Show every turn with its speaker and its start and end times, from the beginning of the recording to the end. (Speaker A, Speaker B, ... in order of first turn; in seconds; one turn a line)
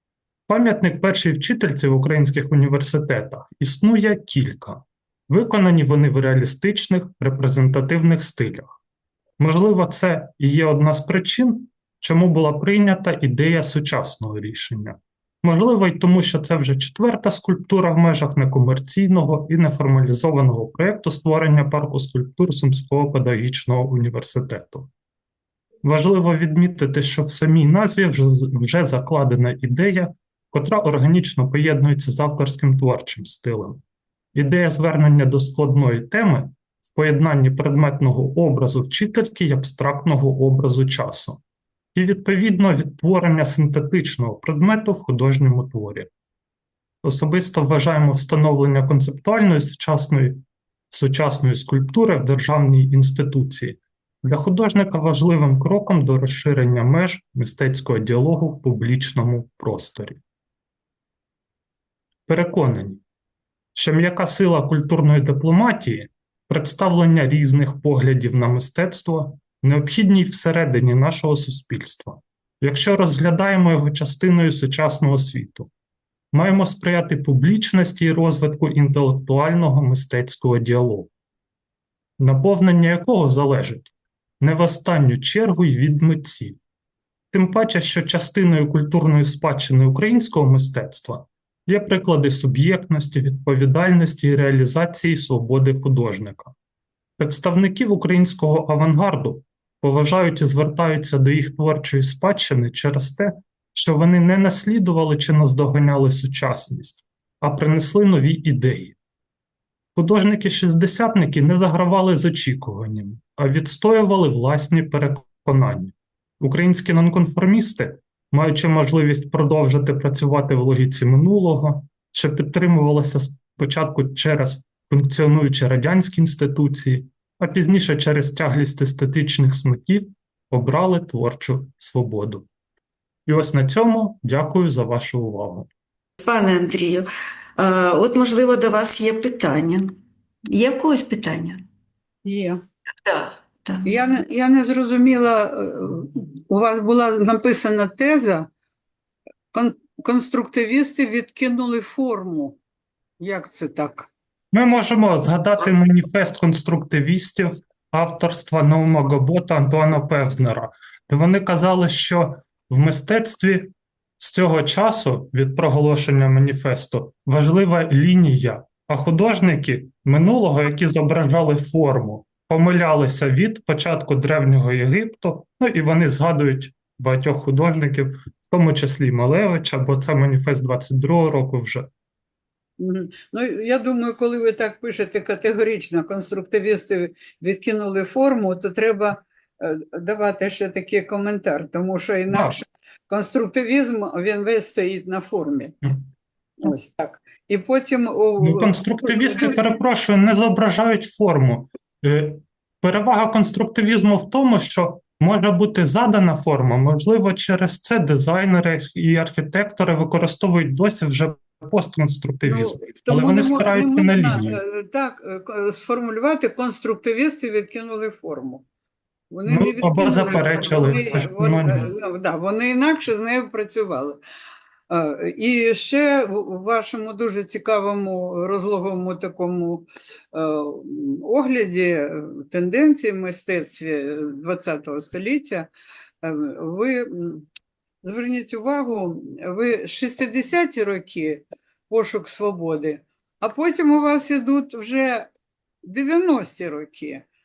Speaker A: 0.5-8.8
Speaker A: 9.4-24.9
Speaker A: 25.8-33.8
Speaker A: 34.4-41.4
Speaker A: 42.0-46.1
Speaker A: 47.0-60.2
Speaker A: 62.3-63.0
Speaker A: 63.8-75.7
Speaker A: 76.3-81.1
Speaker A: 82.2-86.6
Speaker A: 87.3-96.5
Speaker A: 97.2-109.0
Speaker A: 110.0-132.5
Speaker A: 133.3-135.7
Speaker B: 136.2-139.9
Speaker B: 140.5-141.6
Speaker C: 142.2-142.6
Speaker B: 143.1-143.9
Speaker C: 143.8-148.5
Speaker C: 149.5-152.6
Speaker C: 153.2-154.1
Speaker A: 154.5-181.9
Speaker C: 182.8-195.8
Speaker A: 192.3-192.6
Speaker C: 196.6-199.6
Speaker A: 198.4-214.6
Speaker C: 212.4-218.7
Speaker C: 219.3-224.2
Speaker A: 219.4-221.9
Speaker C: 224.9-235.7
Speaker C: 236.2-237.5
Speaker C: 238.0-245.3
Speaker C: 245.8-247.2